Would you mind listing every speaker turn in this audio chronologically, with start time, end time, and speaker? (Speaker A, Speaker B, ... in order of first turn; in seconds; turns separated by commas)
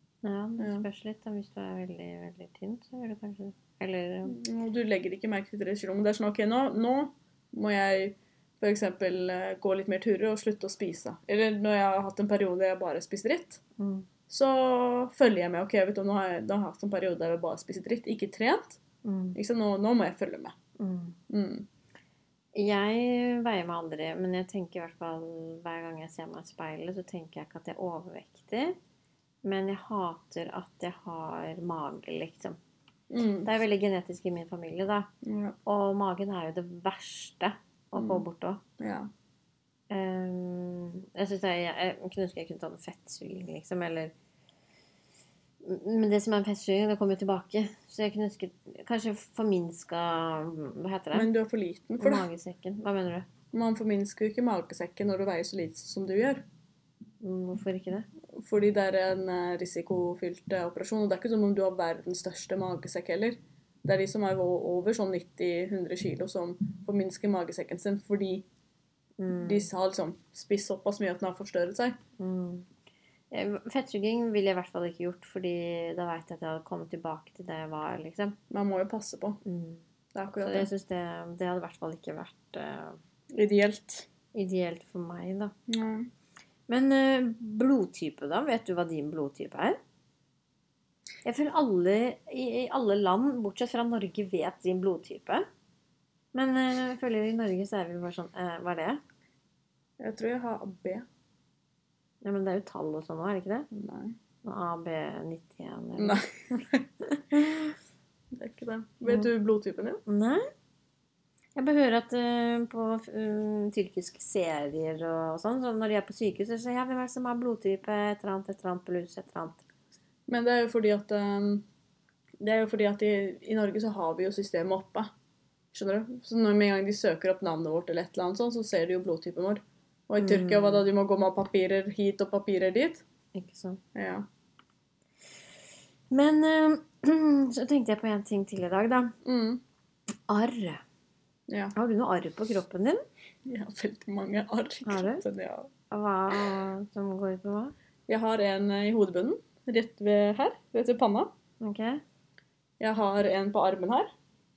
Speaker A: 0.2-4.4, Speaker B: 0.6-0.9, Speaker B: 4.2-13.6, Speaker A: 13.8-14.1, Speaker B: 14.3-18.8, Speaker A: 19.0-19.4, Speaker B: 19.4-20.5, Speaker A: 20.8-21.2, Speaker B: 21.3-21.6, Speaker A: 22.5-28.8, Speaker A: 29.4-32.6, Speaker B: 33.1-33.5, Speaker A: 33.4-35.1, Speaker B: 35.2-35.5, Speaker A: 35.6-38.6, Speaker B: 37.9-38.2, Speaker B: 38.8-39.1, Speaker A: 39.9-44.1, Speaker A: 45.6-51.3, Speaker B: 51.1-52.2, Speaker A: 52.0-53.3, Speaker B: 53.5-56.4, Speaker A: 57.2-58.0, Speaker B: 58.4-68.4, Speaker A: 69.2-69.7, Speaker B: 69.3-72.0, Speaker A: 72.2-72.7, Speaker A: 73.3-78.4, Speaker B: 78.5-79.4, Speaker A: 79.4-79.8, Speaker B: 80.1-80.7, Speaker A: 80.4-83.0, Speaker B: 83.3-84.1, Speaker A: 84.3-85.5, Speaker B: 85.7-86.1, Speaker A: 86.7-89.8, Speaker A: 91.2-95.4, Speaker A: 96.3-99.0, Speaker B: 100.0-101.0, Speaker A: 102.2-103.7, Speaker B: 103.7-104.2, Speaker A: 104.4-106.2, Speaker B: 106.0-106.9, Speaker A: 107.3-107.8, Speaker B: 108.4-110.0, Speaker A: 110.1-110.4, Speaker A: 111.5-119.6, Speaker B: 120.3-121.6, Speaker B: 122.4-125.1, Speaker B: 125.7-133.0, Speaker A: 130.2-130.9, Speaker A: 133.3-133.8, Speaker B: 133.9-134.2, Speaker A: 136.1-139.1, Speaker B: 139.2-139.6, Speaker A: 140.3-140.8, Speaker B: 141.5-141.7, Speaker A: 141.8-143.0, Speaker B: 143.5-145.7, Speaker A: 144.8-145.2, Speaker A: 145.9-147.7, Speaker B: 148.1-151.3, Speaker A: 151.6-152.0, Speaker B: 152.8-154.1